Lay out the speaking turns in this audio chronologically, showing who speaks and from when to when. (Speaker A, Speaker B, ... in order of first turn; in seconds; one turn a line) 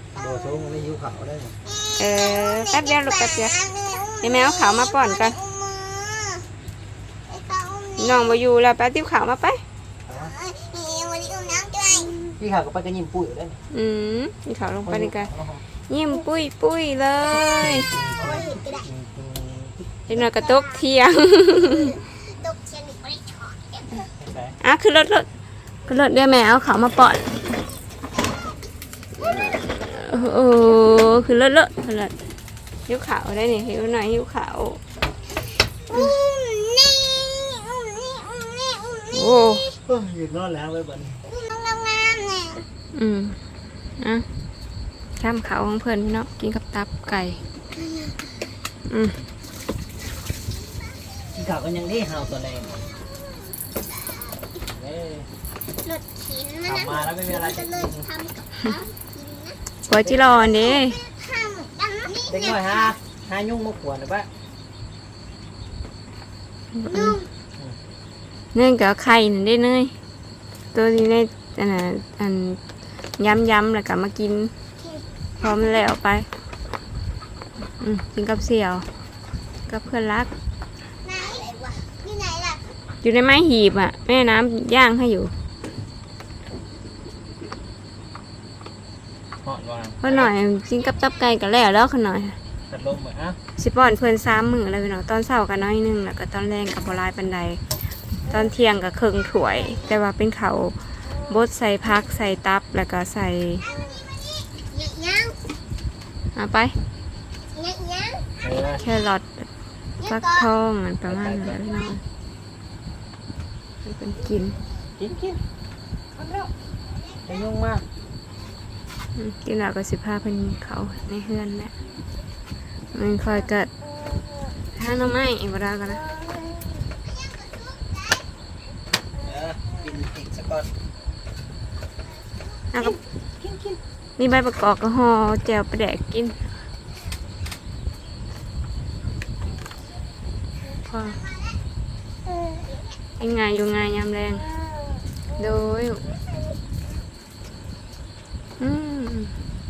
Speaker A: 0.1-1.6
Speaker B: 0.1-0.5
Speaker B: 1.6-6.5
Speaker C: 2.0-3.5
Speaker C: 4.2-5.4
Speaker B: 7.3-8.4
Speaker C: 8.0-9.6
Speaker A: 10.1-10.3
Speaker B: 10.2-12.2
Speaker A: 12.4-13.6
Speaker C: 13.7-15.3
Speaker A: 14.8-15.6
Speaker C: 15.9-17.9
Speaker A: 17.3-20.1
Speaker B: 18.2-18.9
Speaker C: 20.1-22.0
Speaker B: 20.1-20.9
Speaker B: 21.7-24.1
Speaker A: 24.2-24.6
Speaker C: 24.6-25.3
Speaker C: 25.9-27.4
Speaker C: 29.2-32.1
Speaker C: 32.9-34.8
Speaker B: 35.9-39.3
Speaker C: 35.9-36.2
Speaker C: 39.1-39.7
Speaker A: 39.9-41.2
Speaker B: 41.3-42.6
Speaker C: 42.9-43.4
Speaker C: 44.0-44.2
Speaker C: 45.2-47.4
Speaker B: 47.8-48.3
Speaker C: 48.9-49.2
Speaker A: 51.4-52.9
Speaker B: 52.9-54.6
Speaker A: 54.7-55.3
Speaker B: 55.8-59.6
Speaker A: 56.6-58.1
Speaker C: 59.9-61.0
Speaker A: 60.0-60.4
Speaker B: 60.3-62.9
Speaker A: 62.2-64.3
Speaker C: 66.7-67.2
Speaker B: 66.9-67.3
Speaker C: 68.5-69.9
Speaker C: 70.7-72.6
Speaker C: 73.2-74.5
Speaker B: 74.8-75.8
Speaker C: 75.4-76.3
Speaker C: 77.8-78.9
Speaker C: 79.7-80.3
Speaker B: 81.0-82.7
Speaker C: 83.0-85.3
Speaker A: 89.4-90.3
Speaker C: 90.0-92.4
Speaker A: 92.7-93.4
Speaker C: 93.6-97.6
Speaker C: 98.3-103.6
Speaker B: 103.7-105.4
Speaker C: 106.3-106.7
Speaker B: 107.5-108.2
Speaker A: 108.4-108.8
Speaker C: 108.8-109.5
Speaker B: 110.0-110.5
Speaker C: 110.0-112.0
Speaker A: 111.0-111.6
Speaker B: 111.6-111.9
Speaker C: 113.8-114.6
Speaker A: 115.0-115.4
Speaker A: 116.2-116.5
Speaker A: 117.2-117.8
Speaker C: 119.1-121.7
Speaker C: 122.9-123.7
Speaker C: 124.8-126.0
Speaker B: 127.0-128.1
Speaker A: 129.2-130.7
Speaker C: 132.7-133.0
Speaker A: 132.8-133.8
Speaker C: 134.2-136.3
Speaker C: 140.9-141.2
Speaker B: 142.3-142.6
Speaker C: 143.2-144.5
Speaker C: 145.4-146.0
Speaker C: 148.6-149.3